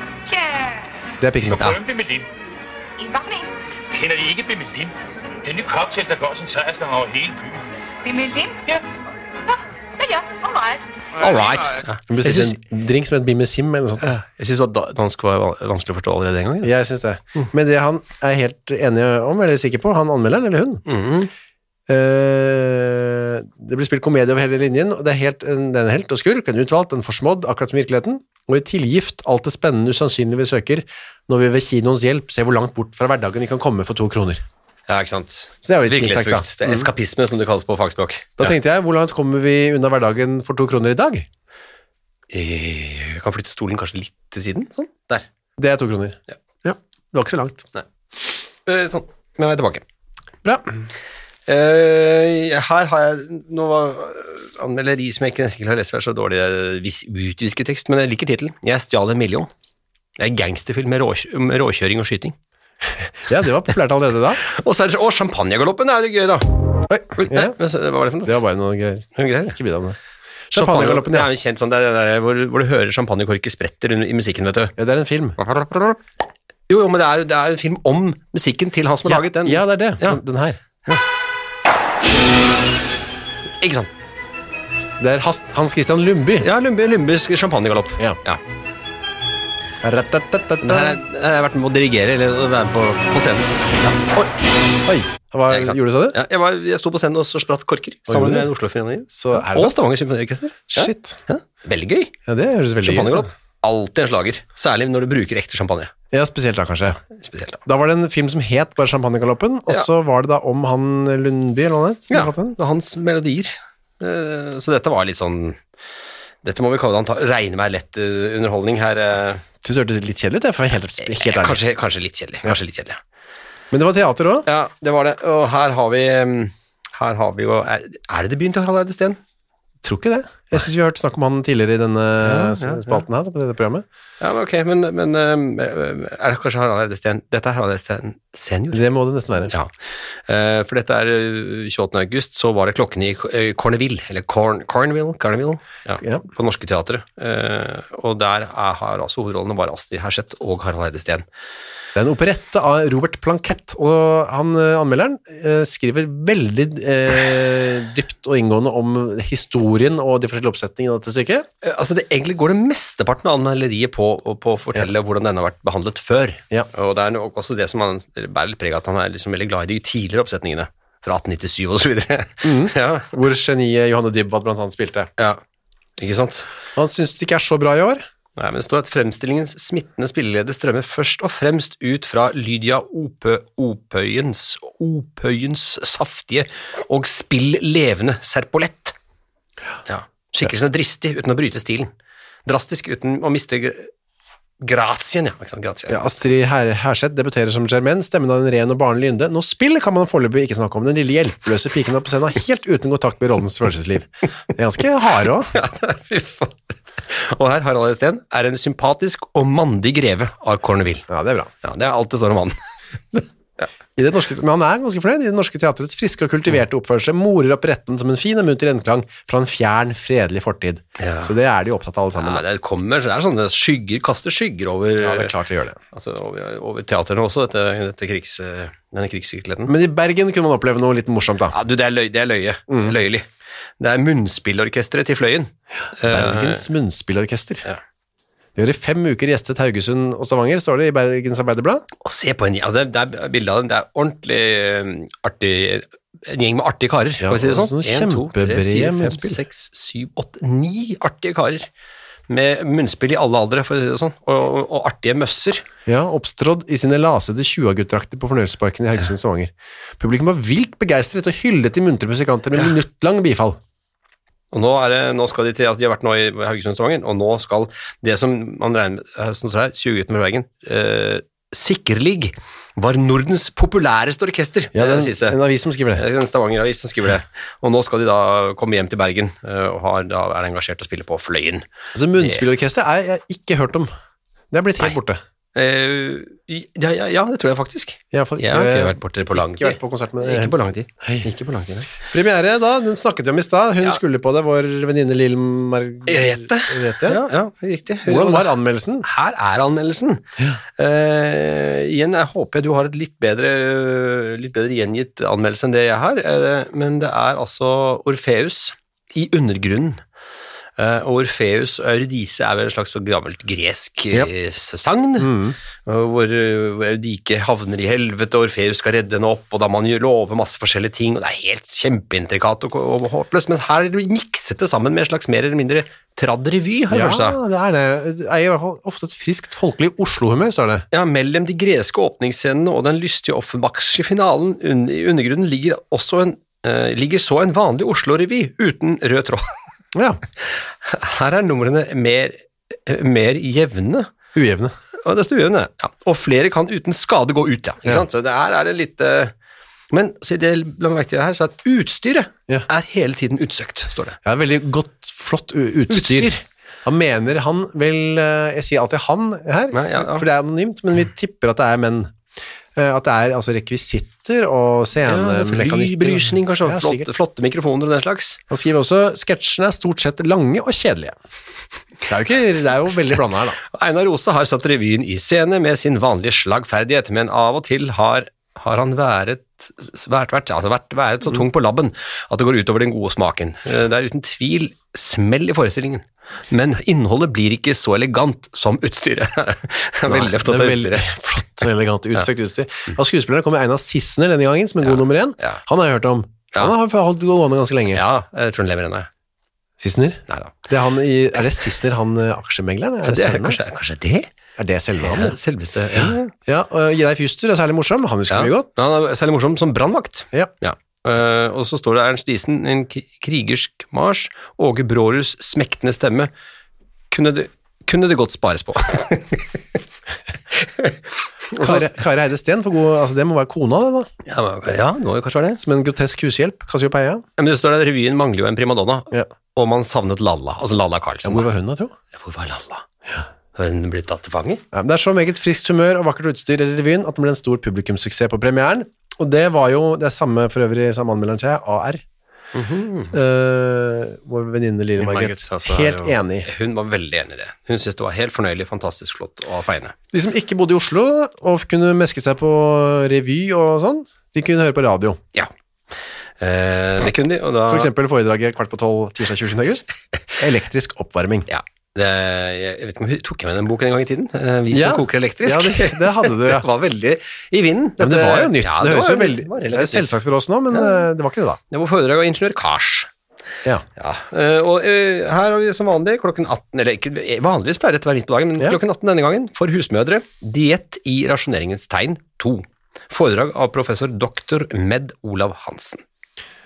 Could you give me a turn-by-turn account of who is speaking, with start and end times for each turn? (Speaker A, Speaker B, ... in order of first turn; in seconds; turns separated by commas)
Speaker A: 0.3-0.9, Speaker B: 1.2-1.8, Speaker C: 1.6-2.3, Speaker A: 3.0-3.5, Speaker C: 3.9-7.6, Speaker A: 8.0-8.8, Speaker A: 9.5-10.9, Speaker D: 11.2-12.6, Speaker B: 12.1-14.1, Speaker D: 14.0-16.7, Speaker B: 16.6-20.8, Speaker D: 20.9-21.3, Speaker B: 21.9-34.4, Speaker D: 34.9-38.5, Speaker B: 35.6-36.9, Speaker B: 38.4-41.3, Speaker D: 42.3-45.3, Speaker B: 45.6-47.7, Speaker D: 48.7-49.9, Speaker B: 50.4-50.7, Speaker D: 51.5-59.5, Speaker D: 60.2-62.4, Speaker B: 63.2-64.4, Speaker D: 64.4-66.5, Speaker B: 66.9-67.6, Speaker D: 67.2-68.4, Speaker B: 68.2-70.0, Speaker D: 69.2-69.6, Speaker B: 70.5-71.3, Speaker D: 70.5-74.7, Speaker B: 74.8-75.4, Speaker D: 75.4-76.0, Speaker D: 76.7-80.2, Speaker B: 79.1-80.6, Speaker D: 83.6-83.9, Speaker B: 85.0-86.5, Speaker D: 86.4-88.4, Speaker B: 89.8-91.0, Speaker D: 90.6-94.3, Speaker B: 94.8-96.2, Speaker D: 95.5-102.1, Speaker B: 98.1-98.5, Speaker B: 99.1-99.8, Speaker B: 100.7-101.2, Speaker B: 102.3-103.3, Speaker D: 102.8-105.9, Speaker B: 106.1-107.0, Speaker D: 107.1-107.6, Speaker B: 107.7-112.6, Speaker D: 112.1-115.6, Speaker D: 116.4-119.4, Speaker B: 119.6-121.6, Speaker D: 121.0-123.0, Speaker B: 123.7-124.5, Speaker D: 124.5-129.2, Speaker B: 129.8-133.8, Speaker D: 132.2-133.0, Speaker D: 134.2-138.8, Speaker B: 138.7-139.5, Speaker D: 139.5-139.7, Speaker D: 140.3-151.2, Speaker B: 151.9-161.5, Speaker D: 161.6-173.1, Speaker B: 172.4-175.1, Speaker D: 176.0-176.5, Speaker B: 176.8-178.1, Speaker D: 178.4-189.0, Speaker D: 189.9-191.9, Speaker D: 192.5-193.9, Speaker D: 194.6-196.1, Speaker B: 195.9-205.5, Speaker D: 205.4-211.1, Speaker B: 211.1-211.5, Speaker D: 211.6-212.6, Speaker D: 213.1-213.7, Speaker B: 214.0-222.4, Speaker D: 221.0-221.3, Speaker D: 222.2-225.3, Speaker B: 225.0-225.8, Speaker D: 225.9-229.7, Speaker B: 229.7-231.6, Speaker D: 231.5-233.3, Speaker B: 232.7-233.0, Speaker D: 233.8-236.6, Speaker B: 236.1-237.7, Speaker B: 238.6-241.8, Speaker D: 242.0-251.7, Speaker B: 247.2-249.4, Speaker D: 252.3-255.7, Speaker B: 255.9-263.6, Speaker D: 264.5-275.4, Speaker B: 274.7-276.0, Speaker D: 275.9-281.6, Speaker B: 281.9-283.9, Speaker B: 284.5-285.2, Speaker D: 285.6-291.9, Speaker B: 288.1-291.3, Speaker B: 292.0-297.2, Speaker D: 296.1-310.0, Speaker B: 298.1-299.1, Speaker D: 310.8-327.4, Speaker B: 315.2-315.6, Speaker B: 326.9-330.9, Speaker D: 330.9-339.5, Speaker B: 339.9-340.2, Speaker D: 340.4-344.1, Speaker B: 344.3-344.7, Speaker D: 345.0-349.3, Speaker D: 349.9-354.2, Speaker B: 354.2-356.3, Speaker D: 355.9-356.4, Speaker B: 356.9-362.1, Speaker D: 359.7-360.3, Speaker B: 362.8-367.1, Speaker D: 365.1-368.4, Speaker B: 368.5-371.2, Speaker B: 372.1-373.6, Speaker D: 373.6-391.1, Speaker B: 390.1-398.0, Speaker D: 394.8-395.6, Speaker D: 397.9-399.1, Speaker B: 399.8-403.6, Speaker D: 400.3-400.6, Speaker D: 403.0-404.3, Speaker B: 404.6-405.4, Speaker D: 405.0-406.3, Speaker B: 406.5-408.9, Speaker D: 408.3-416.3, Speaker D: 417.1-419.6, Speaker D: 420.5-421.9, Speaker B: 421.6-424.1, Speaker D: 424.2-425.6, Speaker B: 425.6-427.2, Speaker D: 427.4-431.5, Speaker B: 431.2-431.9, Speaker D: 432.1-432.9, Speaker D: 433.5-434.6, Speaker B: 434.7-442.0, Speaker D: 442.6-443.1, Speaker B: 443.1-446.5, Speaker D: 445.0-449.9, Speaker B: 450.1-455.2, Speaker D: 456.4-457.9, Speaker B: 457.7-461.5, Speaker D: 461.5-470.1, Speaker B: 464.7-466.7, Speaker B: 468.0-471.6, Speaker D: 470.7-471.0, Speaker D: 471.7-473.1, Speaker D: 474.0-486.0